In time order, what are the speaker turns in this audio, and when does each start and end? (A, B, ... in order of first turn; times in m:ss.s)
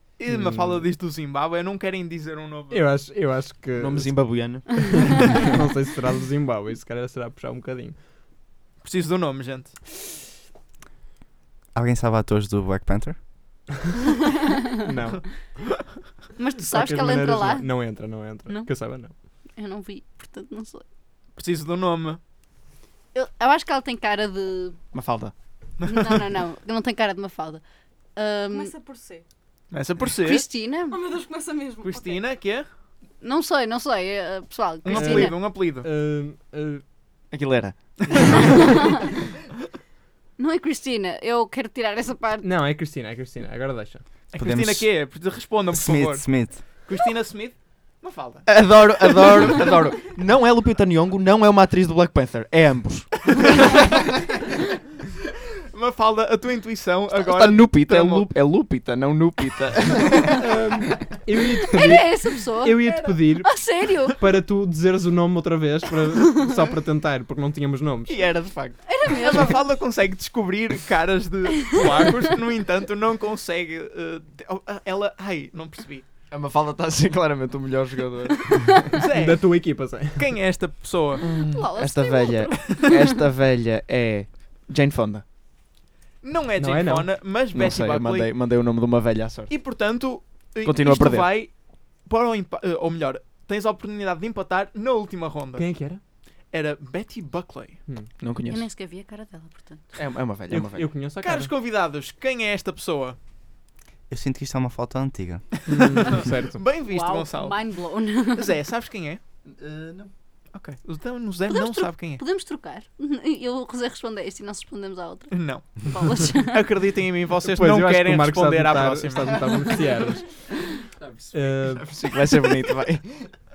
0:00.2-0:02.9 A
0:00.3-0:00.9 B
0:02.7-0:08.0 B
0:03.8-0:05.1 C
0:08.8-0:09.7 A
0:11.7-0:13.2 D
0:14.8-0:15.4 B
0:16.4-0:18.7 E
0:16.6-0:19.1 B
0:19.6-0:20.8 E
0:21.4-0:22.2 A
0:23.1-0:24.8 E
0:24.9-0:25.3 C
0:25.8-0:26.1 A
0:25.8-0:27.6 E
0:28.2-0:28.7 E
0:28.5-0:29.3 F
0:29.7-0:30.5 A
0:30.2-0:31.0 E
0:30.9-0:32.3 F
0:31.8-0:32.7 A
0:33.2-0:35.4 E
0:34.8-0:35.9 A
0:34.9-0:36.8 B
0:37.3-0:38.4 C
0:38.1-0:38.6 B
0:38.4-0:39.0 E
0:40.4-0:42.5 E
0:42.4-0:44.0 B
0:44.3-0:48.8 A
0:44.4-0:45.1 D
0:45.7-0:46.7 D
0:48.5-0:53.9 C
0:55.7-0:58.3 A
0:57.1-1:00.6 C
1:00.4-1:08.3 B
1:01.7-1:04.2 E
1:08.1-1:08.8 C
1:08.9-1:09.7 E
1:09.1-1:16.1 A
1:16.3-1:18.8 C
1:18.9-1:21.3 A
1:19.0-1:20.3 B
1:21.2-1:25.2 C
1:21.5-1:23.2 E
1:26.2-1:28.3 A
1:26.6-1:27.2 B
1:27.5-1:29.6 C
1:29.5-1:35.7 A
1:30.6-1:31.3 C
1:35.6-1:36.0 B
1:36.5-1:37.8 A
1:38.2-1:38.7 C
1:38.5-1:39.9 E
1:40.0-1:40.9 C
1:40.5-1:41.5 B
1:41.2-1:43.2 A
1:44.1-1:46.2 D
1:45.6-1:46.6 B
1:45.7-1:49.2 A
1:46.9-1:48.6 E
1:49.4-1:50.1 C
1:50.5-1:52.2 A
1:51.5-1:56.7 E
1:55.3-1:59.4 A
1:57.4-2:00.4 B
2:00.9-2:03.3 C
2:01.3-2:01.9 B